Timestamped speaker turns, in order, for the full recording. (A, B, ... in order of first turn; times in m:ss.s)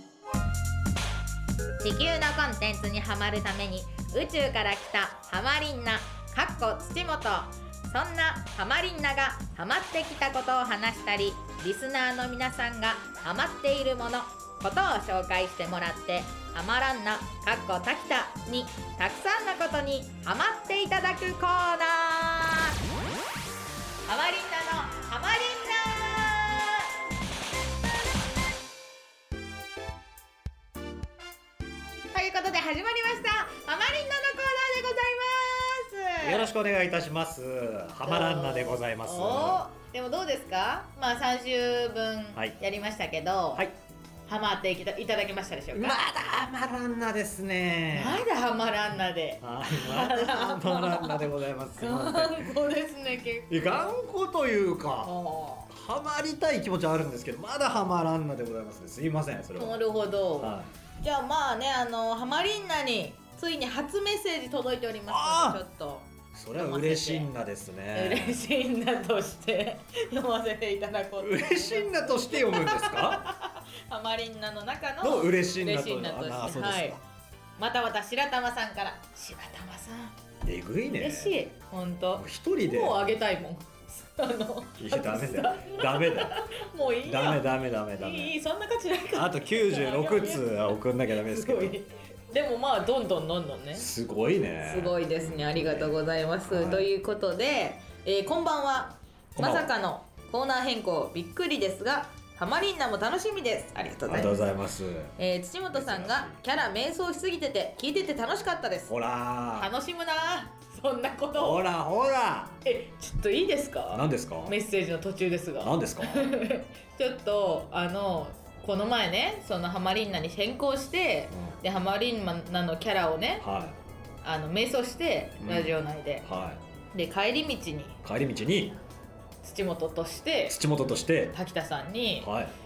0:01.8-0:22.8 A
0:24.1-0:26.9 A
0:32.1-0:36.5 A
0:36.2-0:39.6 B
0:38.0-0:43.6 A
0:44.3-0:46.0 A
0:45.7-0:48.2 B
0:47.9-0:53.9 A
0:49.4-0:52.6 B
0:53.5-0:55.1 B
0:55.0-0:55.7 A
0:55.7-0:59.8 B
0:59.6-1:07.3 A
1:00.4-1:00.7 B
1:05.1-1:05.6 B
1:06.3-1:08.4 B
1:07.9-1:17.0 A
1:11.2-1:13.3 B
1:15.0-1:17.0 B
1:17.6-1:20.1 A
1:20.4-1:21.4 B
1:21.0-1:30.6 A
1:22.1-1:23.1 B
1:24.8-1:26.4 B
1:27.0-1:28.3 B
1:29.1-1:31.8 B
1:31.1-1:33.8 A
1:33.7-1:36.9 B
1:34.6-1:44.4 A
1:39.4-1:39.7 B
1:44.0-1:45.1 B
1:45.2-1:48.9 A
1:45.7-1:46.4 B
1:48.9-1:49.7 B
1:49.5-1:51.6 A
1:51.3-1:52.6 B
1:52.6-2:03.4 A
1:53.9-1:54.6 B
1:55.6-1:56.4 B
2:03.4-2:03.8 B
2:04.2-2:06.2 A
2:05.4-2:06.6 B
2:06.9-2:08.0 A
2:08.0-2:08.8 B
2:09.4-2:10.6 A
2:10.5-2:11.4 B
2:11.3-2:12.3 A
2:12.2-2:12.5 B